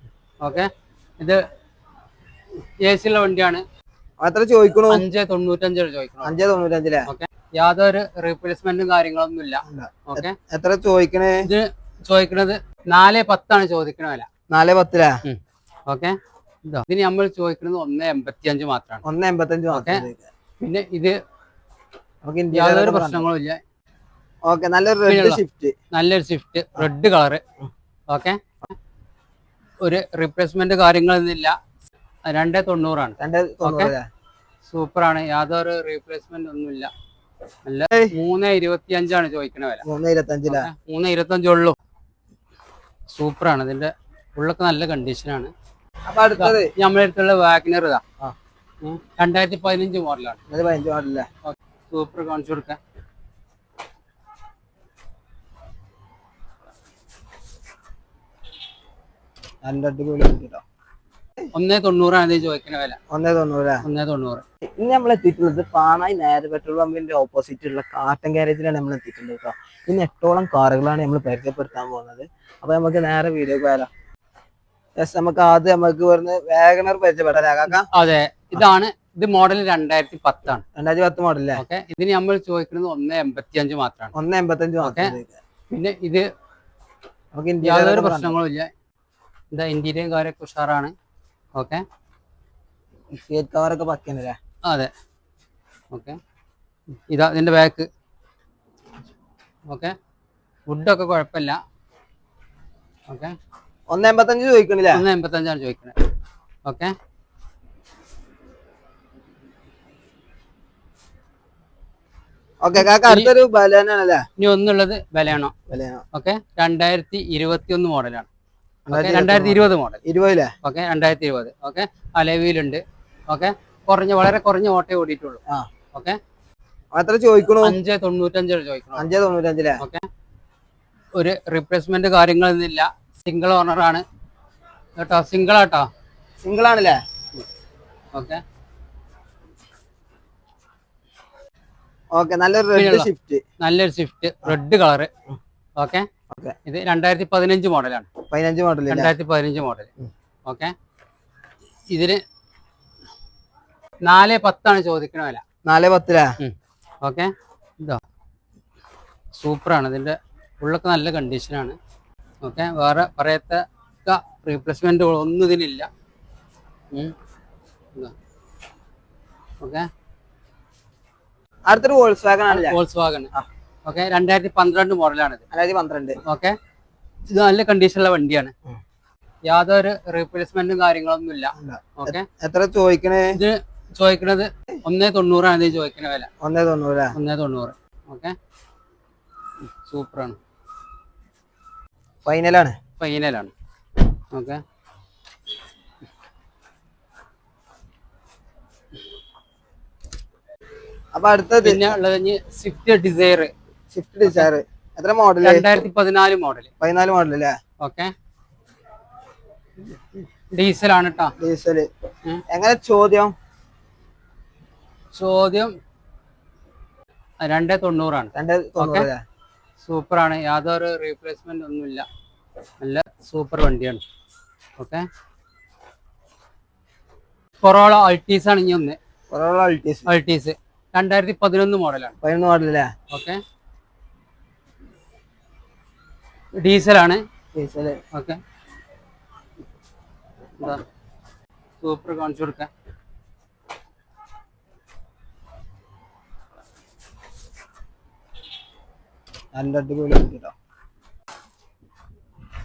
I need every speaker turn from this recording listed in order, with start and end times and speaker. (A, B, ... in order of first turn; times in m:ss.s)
0:00.4-0:00.7 A
0:02.8-0:03.6 A
0:04.2-0:05.0 B
0:04.9-0:06.3 A
0:06.2-0:07.1 B
0:07.1-0:10.4 A
0:09.6-0:11.5 B
0:11.4-0:14.3 A
0:14.5-0:15.2 B
0:15.2-0:16.2 A
0:16.7-0:19.0 A
0:19.0-0:20.3 B
0:19.7-0:20.1 A
0:20.6-0:21.2 A
0:22.2-0:23.2 B
0:22.5-0:23.6 A
0:24.5-0:25.7 B
0:25.1-0:25.4 A
0:25.9-0:27.4 A
0:28.1-0:28.4 A
0:29.8-0:31.6 A
0:32.2-0:33.9 A
0:33.2-0:34.0 B
0:34.7-0:36.9 A
0:37.6-0:39.8 A
0:39.8-0:40.7 B
0:40.5-0:41.8 A
0:43.1-0:45.5 A
0:46.1-0:46.7 B
0:46.4-0:48.0 A
0:48.8-0:50.4 A
0:50.5-0:51.3 B
0:51.4-0:52.8 A
0:59.6-1:00.6 B
1:01.5-1:03.0 A
1:03.1-1:03.8 B
1:03.8-1:04.4 A
1:04.8-1:13.9 B
1:15.0-1:17.9 B
1:17.7-1:20.6 A
1:20.8-1:21.6 B
1:21.6-1:24.1 A
1:24.1-1:25.4 B
1:24.8-1:25.2 A
1:25.7-1:26.3 A
1:27.3-1:28.4 B
1:27.6-1:28.7 A
1:29.5-1:30.9 A
1:31.6-1:31.8 A
1:33.3-1:34.4 B
1:35.9-1:36.2 A
1:37.1-1:37.9 A
1:39.7-1:39.9 A
1:40.7-1:41.6 A
1:43.1-1:43.3 A
1:43.9-1:45.0 B
1:44.9-1:46.0 A
1:46.6-1:46.9 A
1:52.6-1:54.3 B
1:52.8-1:53.3 A
1:54.4-1:55.5 A
1:55.7-1:56.0 B
1:56.1-1:58.3 A
1:58.9-2:00.0 A
1:58.9-2:00.5 B
2:00.6-2:05.4 A
2:06.9-2:07.8 B
2:07.6-2:09.1 A
2:09.0-2:09.8 B
2:09.8-2:10.1 A
2:11.2-2:14.0 A
2:15.0-2:15.9 A
2:16.4-2:17.0 B
2:18.1-2:18.4 A
2:22.1-2:23.4 B
2:22.7-2:23.1 A
2:23.6-2:25.1 A
2:25.8-2:26.1 A
2:26.3-2:26.6 B
2:26.7-2:28.1 A
2:28.3-2:29.1 B
2:28.9-2:29.9 A
2:30.5-2:30.7 A
2:31.9-2:32.2 A
2:34.0-2:35.4 A
2:35.6-2:36.3 B
2:36.4-2:38.0 A
2:39.4-2:41.8 A
2:42.4-2:45.9 A
2:49.6-2:49.9 A
2:51.7-2:52.8 B
2:52.5-2:53.3 A
2:53.8-2:55.4 A
2:55.5-2:56.2 B
2:56.3-2:56.6 A
2:57.3-2:58.5 A
2:59.5-3:02.3 A
3:01.6-3:03.4 B
3:03.4-3:06.3 A
3:06.4-3:07.2 B
3:07.1-3:08.4 A
3:09.8-3:10.4 A
3:12.2-3:12.8 B
3:13.0-3:13.5 A
3:14.3-3:14.6 A
3:21.1-3:22.0 B
3:21.6-3:23.5 A
3:23.9-3:25.6 B
3:24.2-3:24.5 A
3:25.4-3:26.7 A
3:26.8-3:27.6 B
3:27.8-3:28.1 A
3:29.8-3:31.3 A
3:31.4-3:31.9 B
3:32.5-3:33.3 B
3:35.1-3:35.7 A
3:37.4-3:39.1 A
3:38.3-3:39.2 B
3:39.8-3:42.1 A
3:42.8-3:44.0 A
3:44.8-3:45.0 A
3:47.6-3:49.0 A
3:49.3-3:50.1 B
3:50.1-3:52.2 A
3:52.2-3:52.9 B
3:53.1-3:53.4 A
3:56.6-3:57.2 A
3:57.5-3:58.0 B
3:58.1-3:58.4 A
4:01.8-4:02.7 A
4:09.5-4:10.5 B